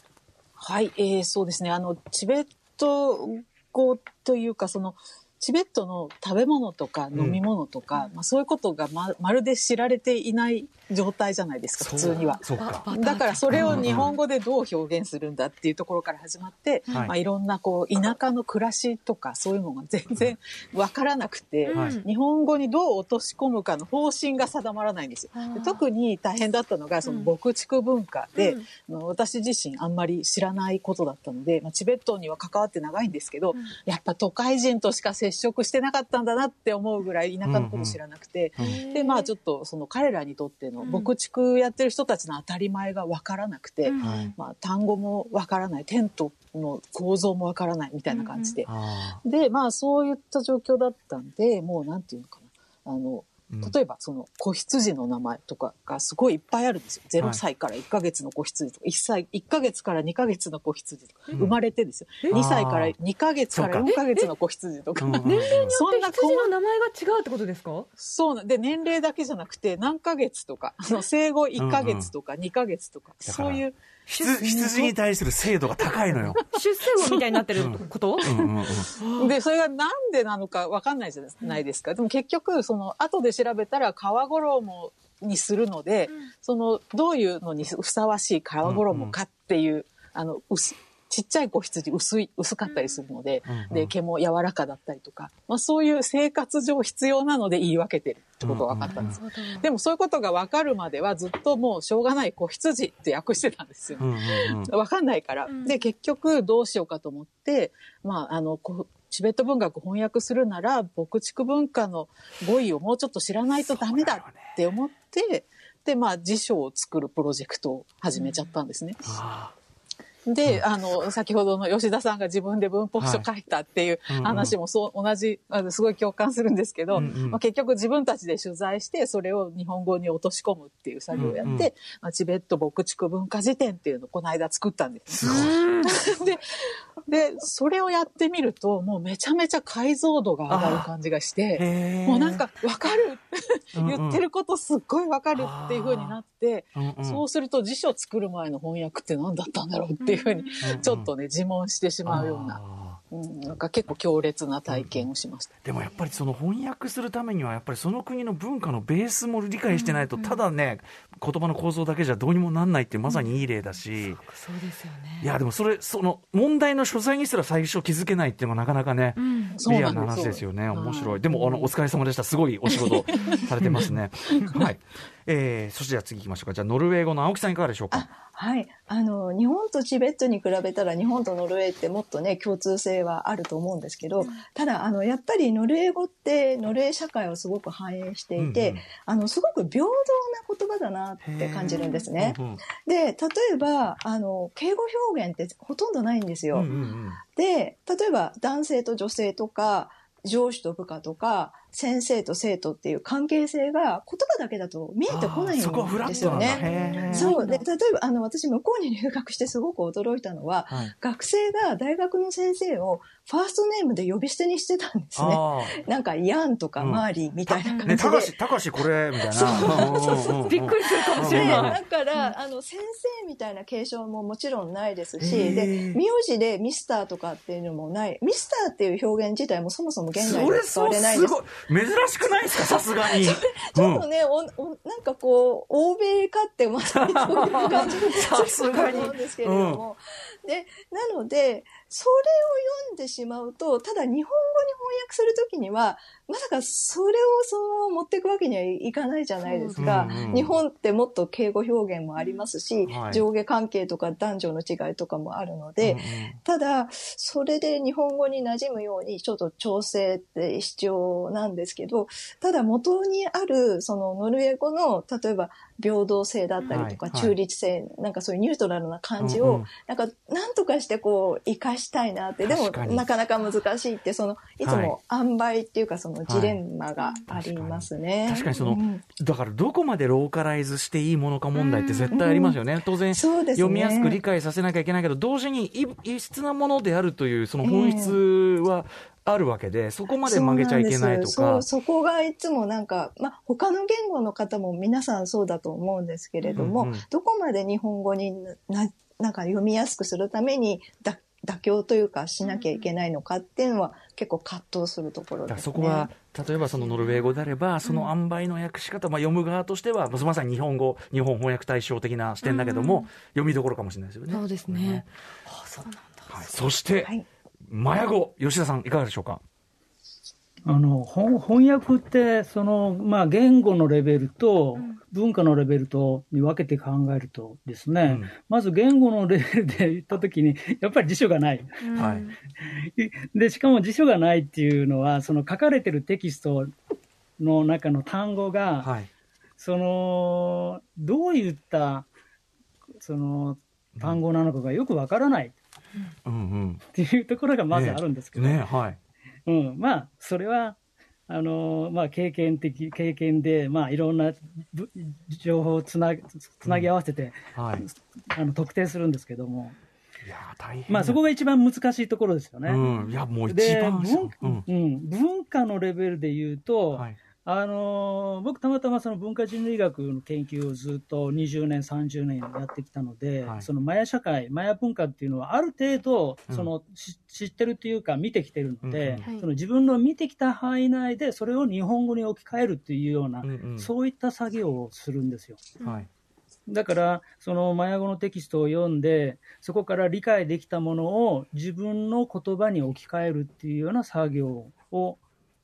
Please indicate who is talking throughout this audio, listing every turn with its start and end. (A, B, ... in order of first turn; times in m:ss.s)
0:00.6-1:06.5 A
0:07.1-0:07.4 B
0:11.8-0:12.9 B
0:12.2-0:14.2 C
0:13.5-0:14.1 B
0:16.9-0:17.1 C
0:21.6-0:22.1 C
0:21.7-0:22.0 B
0:25.3-0:25.8 C
0:27.0-0:27.3 C
0:28.3-0:28.7 C
0:37.4-0:38.0 B
0:38.6-0:39.3 C
0:40.8-0:41.1 C
0:43.8-0:44.4 C
0:44.0-0:44.3 B
0:48.1-0:48.6 C
0:48.6-0:49.2 B
0:53.5-0:53.8 B
0:57.2-0:57.4 B
1:02.3-1:03.0 B
1:03.5-1:03.9 B
1:03.8-1:04.3 C
1:05.0-1:05.8 B
1:05.2-1:07.9 C
1:08.0-1:13.8 A
1:11.6-1:12.1 B
1:13.2-1:16.4 B
1:14.1-1:14.9 C
1:14.4-1:14.9 A
1:16.1-1:17.7 A
1:16.5-1:19.3 C
1:17.5-1:18.9 B
1:18.2-1:59.2 A
1:28.6-1:29.2 B
1:32.6-1:33.0 C
1:33.4-1:33.9 B
1:38.4-1:39.2 B
1:38.8-1:39.7 C
1:44.0-1:44.7 B
1:45.5-1:45.8 C
1:53.6-1:54.6 B
1:59.0-1:59.5 B
2:00.2-2:16.4 A
2:03.0-2:03.3 B
2:04.1-2:04.6 B
2:06.9-2:07.4 B
2:11.1-2:11.4 C
2:11.1-2:11.7 B
2:15.1-2:15.6 B
2:15.2-2:16.0 C
2:17.0-2:32.6 A
2:20.5-2:20.9 B
2:21.5-2:22.4 B
2:22.6-2:23.0 C
2:23.8-2:24.2 B
2:25.3-2:26.2 B
2:26.8-2:27.2 B
2:30.0-2:30.6 C
2:30.6-2:31.1 B
2:32.0-2:33.0 B
2:33.1-2:35.5 A
2:34.7-2:35.1 B
2:35.6-2:44.2 B
2:39.7-2:40.4 C
2:44.2-2:45.3 C
2:45.2-2:58.1 B
2:49.2-2:49.6 C
2:49.5-2:51.7 A
2:52.6-2:54.6 A
2:53.2-2:53.4 C
2:57.9-3:16.7 D
3:08.4-3:08.8 B
3:11.2-3:12.6 B
3:11.7-3:12.1 C
3:16.5-3:17.2 B
3:16.7-3:17.0 C
3:17.3-3:38.3 D
3:25.1-3:27.4 B
3:26.0-3:27.6 C
3:35.2-3:35.8 B
3:36.8-3:41.8 B
3:37.6-3:37.9 C
3:39.2-3:51.4 D
3:39.6-3:42.3 C
3:45.2-3:46.0 B
3:50.1-3:54.0 B
3:53.0-4:39.0 D
3:56.9-3:59.8 B
3:57.5-3:58.1 C
3:58.6-3:59.1 C
4:09.4-4:10.4 C
4:09.8-4:10.6 B
4:12.2-4:12.5 C
4:12.8-4:13.2 B
4:15.8-4:16.4 B
4:26.6-4:26.9 C
4:26.7-4:27.3 B
4:29.2-4:29.7 B
4:32.4-4:33.1 B
4:34.6-4:34.9 B
4:36.3-4:36.6 B
4:37.3-4:51.6 B
4:41.5-4:42.2 C
4:42.1-4:42.6 D
4:43.1-4:44.2 D
4:47.6-4:48.2 D
4:50.2-5:06.1 D
4:56.4-4:56.7 C
4:56.6-4:57.0 B
5:02.4-5:02.9 C
5:05.5-5:15.0 B
5:06.8-5:08.1 C
5:12.4-5:13.1 C
5:14.3-5:16.3 C
5:16.3-5:17.1 B
5:17.6-5:19.4 B
5:20.6-5:32.1 E
5:28.0-5:28.3 B
5:31.8-5:32.4 C
5:32.0-5:32.2 B
5:32.6-5:36.7 E
5:37.4-5:38.9 E
5:38.8-5:39.1 B
5:39.6-5:42.1 E
5:43.0-5:45.5 E
5:46.2-5:46.8 B
5:46.9-5:48.6 E
5:47.7-5:49.0 B
5:49.4-5:50.8 E
5:51.3-5:59.8 E
5:57.5-5:57.8 B
6:00.2-6:01.2 B
6:00.9-6:02.8 E
6:02.6-6:04.7 B
6:02.8-6:03.1 C
6:03.5-6:25.7 E
6:18.8-6:19.2 B
6:19.2-6:19.5 C
6:23.4-6:23.9 B
6:25.8-6:26.1 B
6:26.7-6:35.2 E